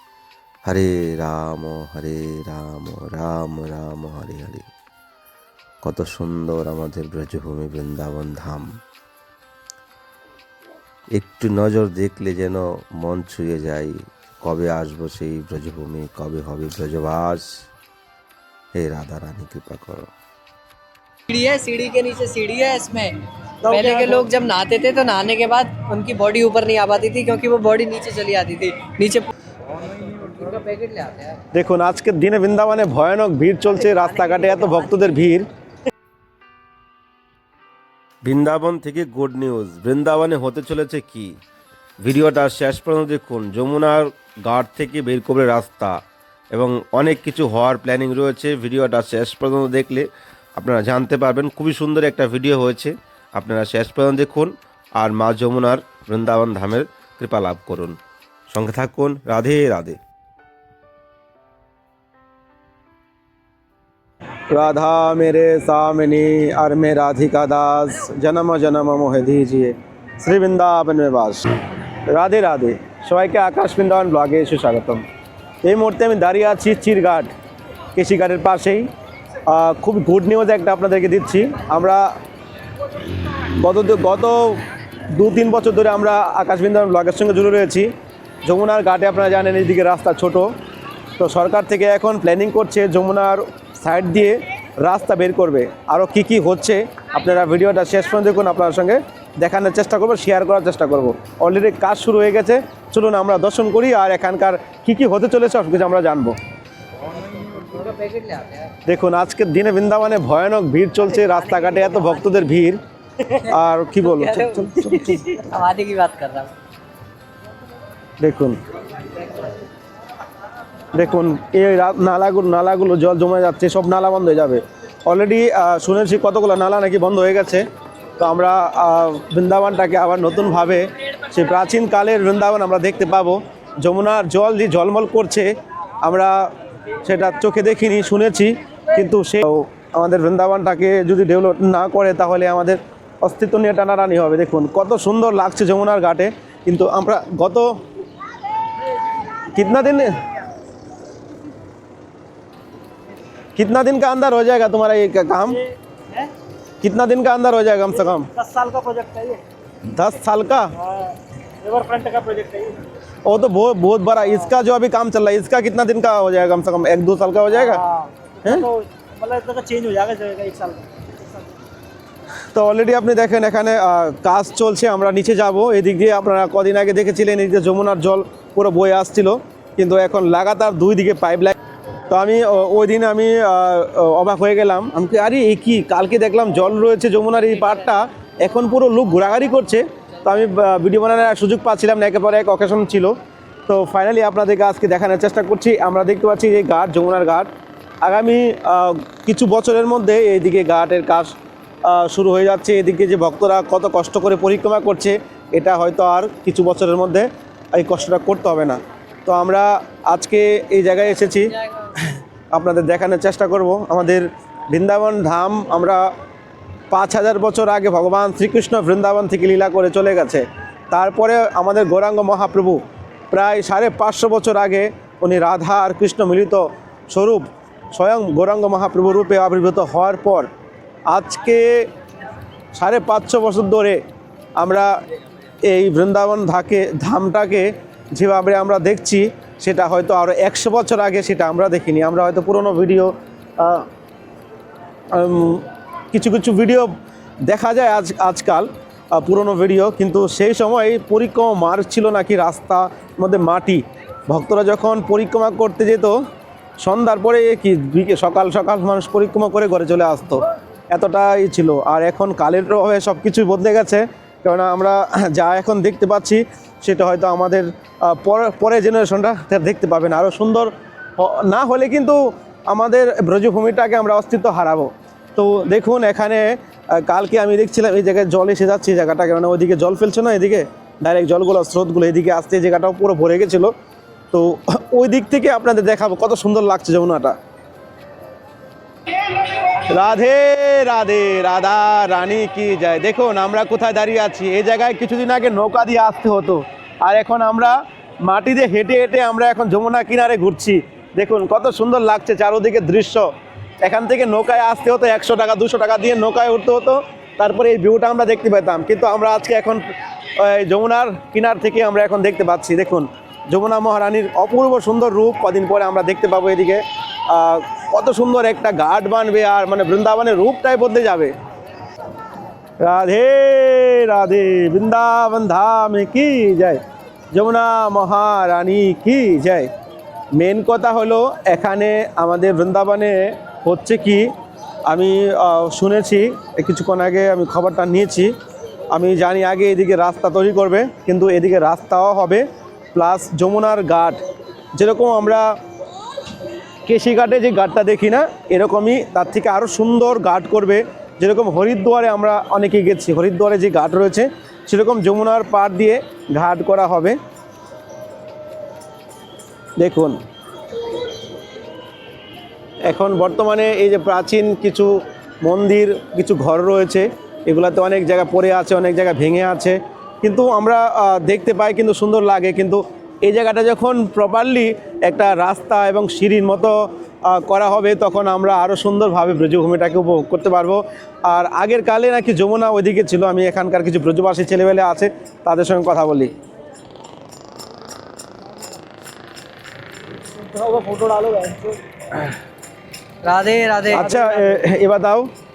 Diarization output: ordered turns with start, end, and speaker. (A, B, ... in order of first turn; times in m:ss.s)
0:00.6-0:04.6 A
0:05.8-0:08.7 A
0:11.1-0:17.4 A
0:18.7-0:20.1 A
0:21.3-0:29.3 B
0:23.7-0:24.0 C
0:30.0-0:31.4 B
0:31.5-0:35.5 C
0:33.8-0:35.2 B
0:38.2-0:41.3 A
0:42.0-0:46.0 A
0:46.5-0:50.0 A
0:50.6-0:58.0 A
0:58.5-1:00.0 A
1:04.5-1:11.5 C
1:12.1-1:15.0 C
1:15.6-1:17.3 C
1:18.0-1:18.9 C
1:19.5-1:22.1 C
1:23.6-1:24.6 C
1:25.1-1:27.9 C
1:28.4-1:30.5 C
1:31.2-1:46.3 C
1:47.2-1:48.7 B
1:48.8-1:52.8 C
1:51.1-1:52.5 B
1:53.3-1:56.5 B
1:53.5-1:55.3 C
1:58.2-1:58.6 C
2:00.9-2:07.6 C
2:08.2-2:15.5 C
2:16.0-2:16.4 C
2:17.0-2:27.7 C
2:29.5-2:30.2 C
2:33.6-2:35.6 C
2:35.5-2:36.3 D
2:36.8-2:38.3 C
2:37.9-2:39.4 D
2:39.9-2:40.7 C
2:40.8-2:42.8 D
2:43.2-2:47.8 C
2:44.2-2:44.5 D
2:47.5-2:51.4 D
2:52.5-3:01.6 C
3:02.1-3:13.1 C
3:07.3-3:10.5 B
3:13.7-3:17.5 C
3:18.0-3:21.3 C
3:21.8-3:31.5 C
3:31.2-3:31.9 B
3:32.5-3:36.0 C
3:36.9-3:50.5 C
3:51.1-3:51.8 C
3:52.7-3:54.0 C
3:54.6-3:54.9 C
3:55.7-4:03.8 C
4:05.1-4:06.9 C
4:07.4-4:16.2 C
4:16.8-4:43.7 C
4:44.3-4:47.4 C
4:49.8-5:03.2 C
5:03.8-5:09.8 C
5:10.4-5:21.3 C
5:22.8-5:26.8 C
5:27.3-5:29.7 C
5:30.4-5:34.3 C
5:34.9-5:38.3 C
5:38.9-5:44.2 C
5:44.8-5:45.4 C
5:46.8-5:57.2 C
5:59.8-6:00.2 C
6:02.8-6:04.9 C
6:05.4-6:26.3 C
6:30.2-6:31.8 D
6:33.2-6:34.2 B
6:33.9-6:35.3 C
6:34.1-6:34.7 D